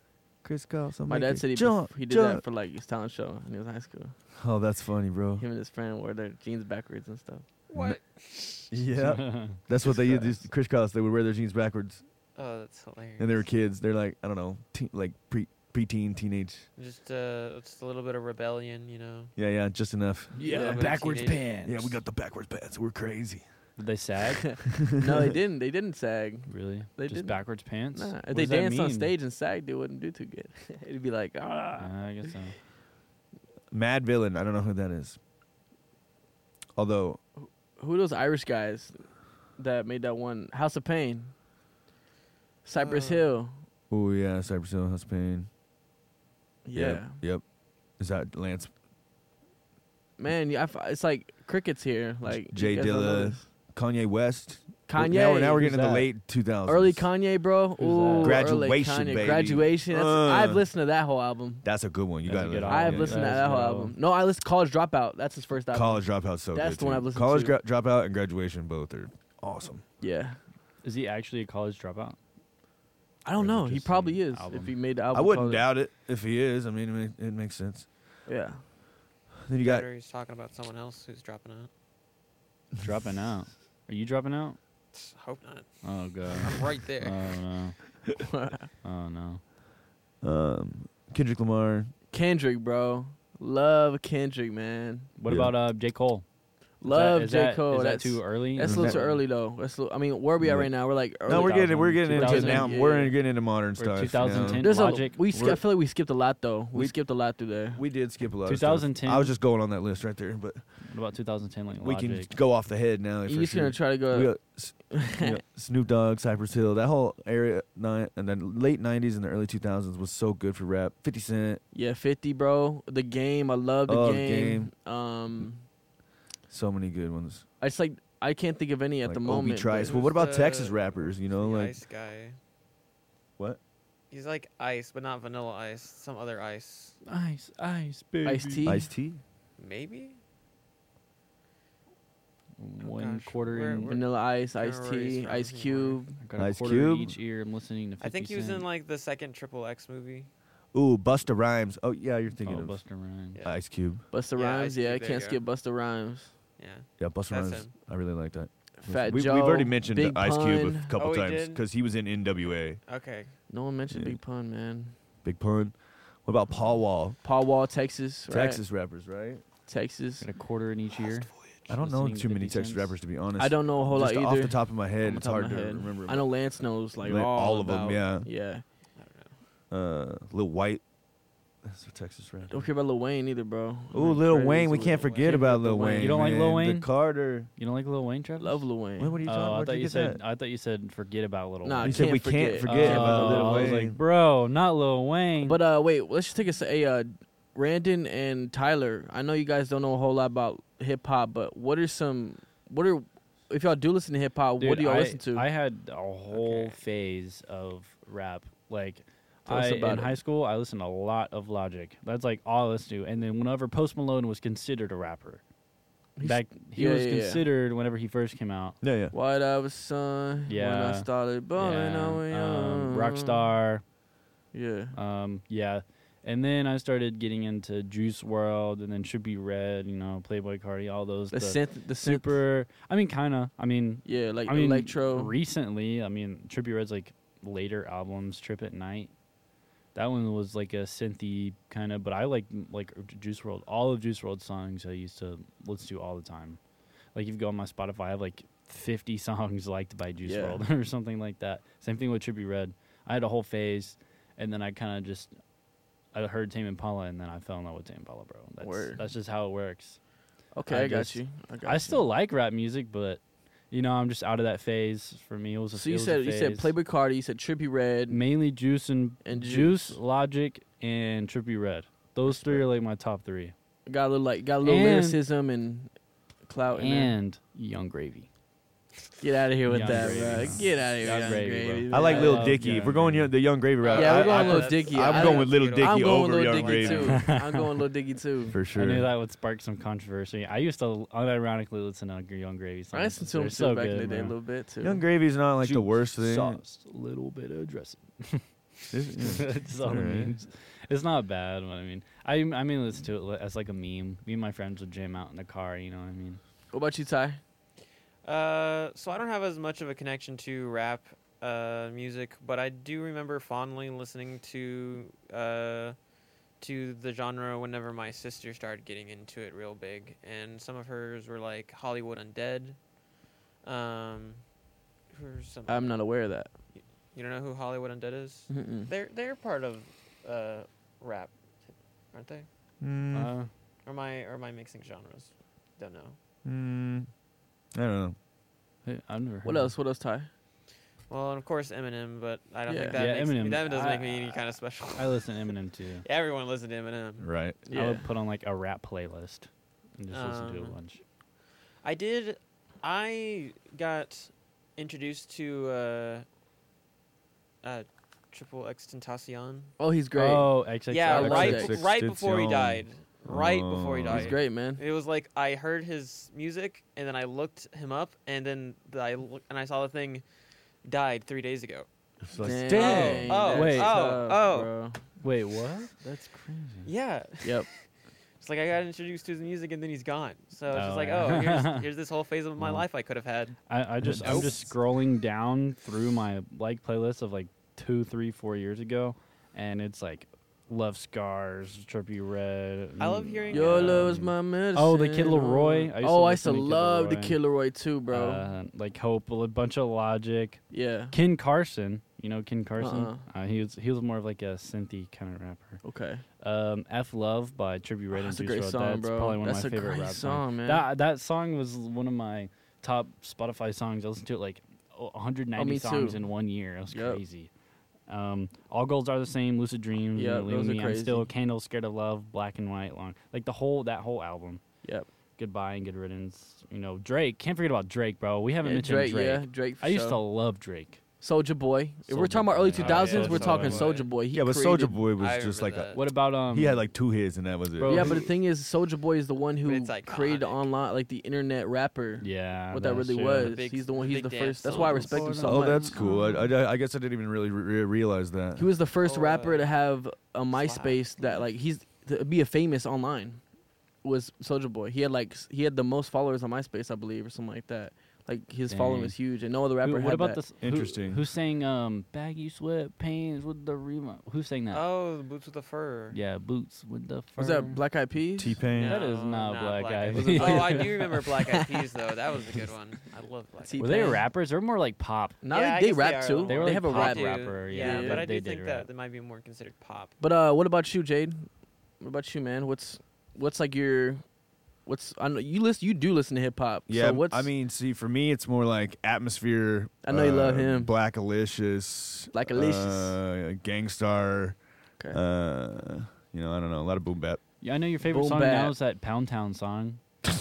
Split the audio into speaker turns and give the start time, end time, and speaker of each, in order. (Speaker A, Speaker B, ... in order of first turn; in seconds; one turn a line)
Speaker A: 0.4-2.4
Speaker B: 1.1-4.2
Speaker A: 4.3-5.5
Speaker B: 5.4-7.5
Speaker C: 7.7-8.7
Speaker A: 8.7-12.0
Speaker D: 9.0-9.6
Speaker B: 9.9-10.3
Speaker C: 12.4-13.5
Speaker A: 13.2-16.7
Speaker C: 16.8-19.3
Speaker A: 19.4-20.5
Speaker D: 20.4-21.9
Speaker C: 20.4-21.5
Speaker B: 20.5-20.9
Speaker A: 21.6-23.4
Speaker D: 23.8-24.6
Speaker B: 24.3-32.1
Speaker D: 26.5-29.1
Speaker D: 31.8-32.6
Speaker A: 33.7-35.2
Speaker A: 36.8-37.2
Speaker B: 37.4-41.3
Speaker B: 42.6-43.6
Speaker C: 42.8-43.3
Speaker A: 43.9-45.5
Speaker B: 46.6-47.2
Speaker A: 46.7-47.4
Speaker A: 48.0-48.7
Speaker B: 50.2-53.5
Speaker A: 52.3-57.1
Speaker B: 54.9-55.9
Speaker D: 55.5-56.1
Speaker B: 56.6-61.7
Speaker D: 57.8-58.5
Speaker A: 58.2-60.7
Speaker A: 61.6-63.4
Speaker D: 62.2-64.0
Speaker B: 62.6-67.6
Speaker A: 65.7-69.8
Speaker B: 70.0-70.4
Speaker D: 70.8-72.2
Speaker B: 73.2-75.7
Speaker D: 73.3-74.8
Speaker A: 75.1-77.9
Speaker B: 78.3-78.6
Speaker A: 79.5-79.9
Speaker C: 79.6-81.7
Speaker D: 82.8-84.6
Speaker C: 84.9-85.7
Speaker D: 85.8-88.0
Speaker C: 86.3-87.3
Speaker B: 88.2-88.7
Speaker D: 88.8-89.4
Speaker A: 90.2-91.9
Speaker B: 92.1-95.1
Speaker D: 95.2-99.2
Speaker A: 95.3-95.5
Speaker B: 96.8-103.2
Speaker A: 98.6-99.0
Speaker A: 100.4-105.6
Speaker D: 101.3-102.7
Speaker D: 103.8-105.2
Speaker B: 104.3-107.8
Speaker A: 106.7-107.0
Speaker A: 107.7-110.6
Speaker D: 108.5-109.3
Speaker D: 110.8-112.3
Speaker A: 111.8-121.6
Speaker B: 113.3-114.4
Speaker B: 114.9-115.4
Speaker B: 121.7-125.7
Speaker A: 123.9-124.7
Speaker A: 126.5-127.5
Speaker B: 127.6-130.1
Speaker A: 129.1-131.8
Speaker C: 129.8-132.4
Speaker C: 134.1-137.0
Speaker D: 137.1-138.8
Speaker B: 138.2-138.9
Speaker A: 138.6-139.2
Speaker C: 139.6-140.2
Speaker D: 142.6-144.0
Speaker C: 142.8-146.0
Speaker B: 143.9-146.2
Speaker D: 146.2-148.7
Speaker A: 146.4-147.2
Speaker C: 148.0-150.3
Speaker A: 150.7-152.8
Speaker D: 152.4-153.4
Speaker A: 153.4-154.0
Speaker B: 154.1-156.3
Speaker C: 154.3-155.4
Speaker C: 156.6-157.7
Speaker A: 157.0-162.8
Speaker B: 158.8-161.0
Speaker C: 160.9-161.7
Speaker C: 162.9-163.3
Speaker B: 163.5-165.0
Speaker A: 163.9-164.2
Speaker A: 165.2-167.2
Speaker B: 167.2-168.6
Speaker A: 168.3-169.4
Speaker B: 169.7-170.3
Speaker D: 170.2-172.9
Speaker A: 171.7-176.3
Speaker B: 173.4-178.6
Speaker A: 177.0-178.3
Speaker C: 179.0-179.3
Speaker A: 179.7-180.8
Speaker A: 181.6-182.7
Speaker B: 182.5-186.3
Speaker A: 183.9-187.5
Speaker C: 184.9-185.4
Speaker D: 186.0-186.9
Speaker D: 187.6-188.7
Speaker B: 188.4-189.2
Speaker A: 189.0-190.2
Speaker D: 189.2-195.6
Speaker B: 191.6-193.8
Speaker A: 191.8-194.0
Speaker B: 195.4-205.5
Speaker D: 204.6-215.4
Speaker C: 206.3-206.8
Speaker B: 209.5-210.2
Speaker B: 216.2-217.4
Speaker D: 216.2-218.8
Speaker A: 218.8-219.1
Speaker B: 219.1-223.4
Speaker D: 220.5-223.8
Speaker B: 224.5-225.0
Speaker D: 224.9-239.1
Speaker B: 231.3-232.4
Speaker B: 234.0-235.3
Speaker D: 239.9-246.6
Speaker D: 247.1-255.3
Speaker B: 250.2-250.6
Speaker D: 256.1-260.0
Speaker B: 258.6-259.0
Speaker B: 260.5-262.0
Speaker D: 260.7-266.7
Speaker B: 265.7-268.2
Speaker D: 268.1-273.6
Speaker B: 269.2-270.0
Speaker B: 272.4-272.6
Speaker B: 273.9-275.9
Speaker D: 274.6-275.2
Speaker B: 276.5-277.2
Speaker D: 276.8-278.3
Speaker B: 279.2-282.8
Speaker D: 279.6-283.4
Speaker C: 281.0-281.4
Speaker A: 281.9-287.3
Speaker C: 283.8-287.2
Speaker B: 283.9-288.6
Speaker D: 287.1-287.7
Speaker A: 288.5-289.1
Speaker D: 288.7-294.4
Speaker B: 292.9-295.0
Speaker A: 294.8-296.6
Speaker D: 295.6-306.4
Speaker A: 298.9-300.4
Speaker B: 306.7-307.4
Speaker C: 308.2-316.0
Speaker C: 316.6-322.8
Speaker C: 323.6-324.4
Speaker C: 325.1-326.0
Speaker B: 325.7-326.5
Speaker C: 326.8-331.4
Speaker B: 328.5-328.9
Speaker C: 332.1-332.5
Speaker A: 332.8-333.3
Speaker D: 333.1-333.5
Speaker C: 333.9-336.2
Speaker A: 336.4-337.1
Speaker A: 337.7-338.2
Speaker D: 338.9-339.7
Speaker B: 339.4-340.3
Speaker C: 341.1-345.2
Speaker B: 342.7-343.0
Speaker D: 343.0-344.4
Speaker D: 344.9-346.1
Speaker C: 346.0-347.3
Speaker A: 347.2-347.6
Speaker B: 347.7-348.1
Speaker D: 347.7-351.0
Speaker C: 350.1-350.8
Speaker C: 351.8-356.2
Speaker C: 357.6-359.7
Speaker B: 359.8-361.7
Speaker D: 360.1-361.7
Speaker C: 360.9-370.2
Speaker A: 361.2-364.4
Speaker B: 364.1-364.8
Speaker C: 370.8-371.9
Speaker A: 372.2-373.5
Speaker B: 372.4-375.0
Speaker C: 372.5-374.7
Speaker D: 373.5-374.1
Speaker D: 375.2-376.9
Speaker C: 376.9-377.8
Speaker C: 378.4-383.6
Speaker D: 380.7-381.9
Speaker D: 382.6-382.8
Speaker D: 383.7-397.4
Speaker A: 384.0-384.6
Speaker B: 384.2-384.5
Speaker C: 393.0-394.2
Speaker B: 393.5-398.4
Speaker D: 398.1-405.8
Speaker B: 400.7-401.1
Speaker B: 402.8-403.2
Speaker B: 405.8-406.2
Speaker D: 406.4-417.5
Speaker B: 408.1-410.9
Speaker B: 415.6-416.2
Speaker B: 416.9-417.2
Speaker D: 418.1-424.6
Speaker B: 420.1-421.3
Speaker D: 425.4-431.0
Speaker B: 428.6-430.2
Speaker B: 431.2-435.0
Speaker D: 432.1-434.0
Speaker C: 432.7-434.1
Speaker A: 434.3-438.3
Speaker C: 435.2-436.0
Speaker D: 435.9-436.9
Speaker D: 437.8-438.3
Speaker B: 437.9-446.0
Speaker C: 439.6-440.6
Speaker D: 442.2-443.6
Speaker C: 443.3-445.4
Speaker D: 444.7-446.4
Speaker A: 445.4-448.7
Speaker B: 448.6-453.4
Speaker C: 449.0-449.7
Speaker C: 450.5-451.5
Speaker B: 454.0-460.4
Speaker D: 458.7-459.2
Speaker D: 459.8-464.8
Speaker A: 460.6-461.3
Speaker C: 464.7-466.2
Speaker D: 466.1-467.8
Speaker B: 467.4-468.6
Speaker A: 468.4-469.0
Speaker C: 468.7-474.2
Speaker D: 468.8-471.1
Speaker B: 470.1-471.8
Speaker B: 473.6-474.3
Speaker D: 473.8-475.4
Speaker B: 475.4-478.2
Speaker C: 475.5-480.2
Speaker D: 476.5-478.9
Speaker B: 480.2-481.5
Speaker B: 482.0-484.2
Speaker B: 484.9-487.5
Speaker A: 486.9-494.6
Speaker B: 490.0-490.9
Speaker B: 492.3-493.2
Speaker A: 495.1-497.4
Speaker D: 497.6-500.0
Speaker B: 498.1-498.8